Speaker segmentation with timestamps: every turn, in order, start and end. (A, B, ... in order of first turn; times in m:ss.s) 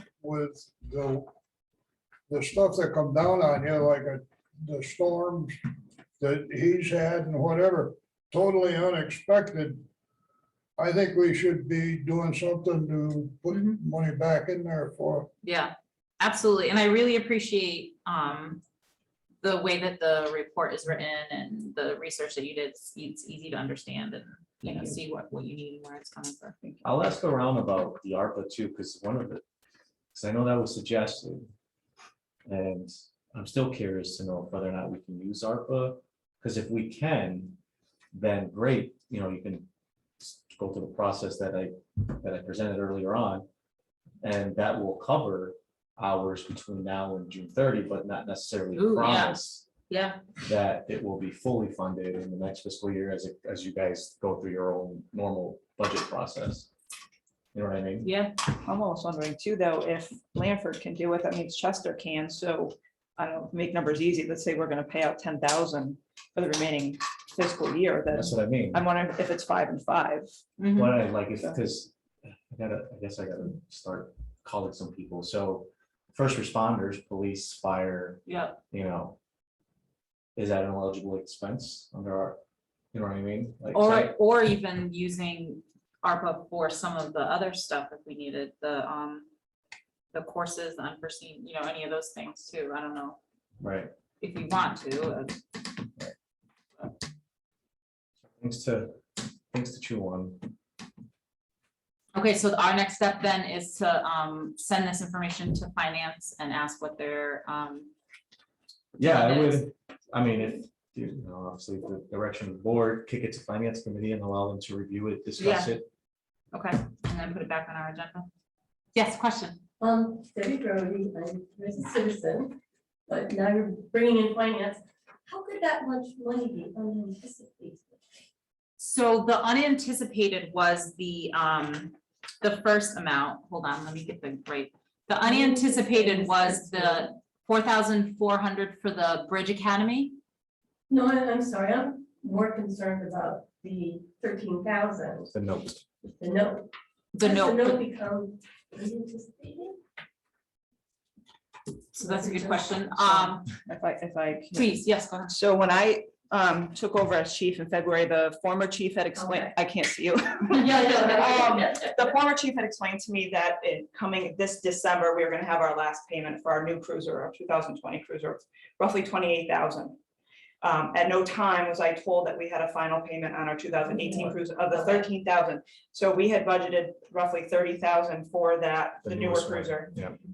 0:00.2-0:01.3 A
0:02.3-0:05.6 A
0:06.2-0:09.8 A
0:10.8-0:15.3 A
0:13.5-0:13.8 B
0:15.4-0:18.6 B
0:19.4-0:26.6 B
0:26.8-0:29.4 C
0:30.1-0:31.5 C
0:32.5-0:37.6 C
0:38.1-0:39.7 C
0:40.2-0:43.5 C
0:44.2-0:49.7 C
0:48.7-0:49.4 B
0:49.9-0:50.2 B
0:50.4-0:56.7 C
0:57.5-0:58.1 C
0:58.0-0:58.4 B
0:58.7-1:10.3 D
1:08.1-1:08.8 C
1:10.6-1:11.0 B
1:10.8-1:19.2 C
1:18.3-1:18.6 B
1:20.4-1:22.4 C
1:22.9-1:24.1 C
1:23.7-1:29.3 B
1:30.1-1:33.2 B
1:33.6-1:33.9 C
1:34.2-1:35.6 B
1:38.2-1:40.5 C
1:42.1-1:47.9 B
1:49.0-1:55.8 C
1:49.1-1:49.6 B
1:55.4-1:55.8 B
1:56.5-1:58.3 B
1:58.9-1:59.6 B
1:59.8-2:08.0 E
2:08.8-2:20.2 B
2:15.2-2:17.1 E
2:20.9-2:25.3 E
2:25.3-2:25.8 C
2:26.1-2:29.8 E
2:27.2-2:27.8 B
2:31.9-2:33.5 B
2:32.0-2:32.9 E
2:33.7-2:34.7 D
2:34.5-2:35.3 B
2:35.4-2:50.0 D
2:39.2-2:39.5 E
2:40.5-2:42.1 E
2:50.6-2:59.9 D
2:59.0-3:00.2 C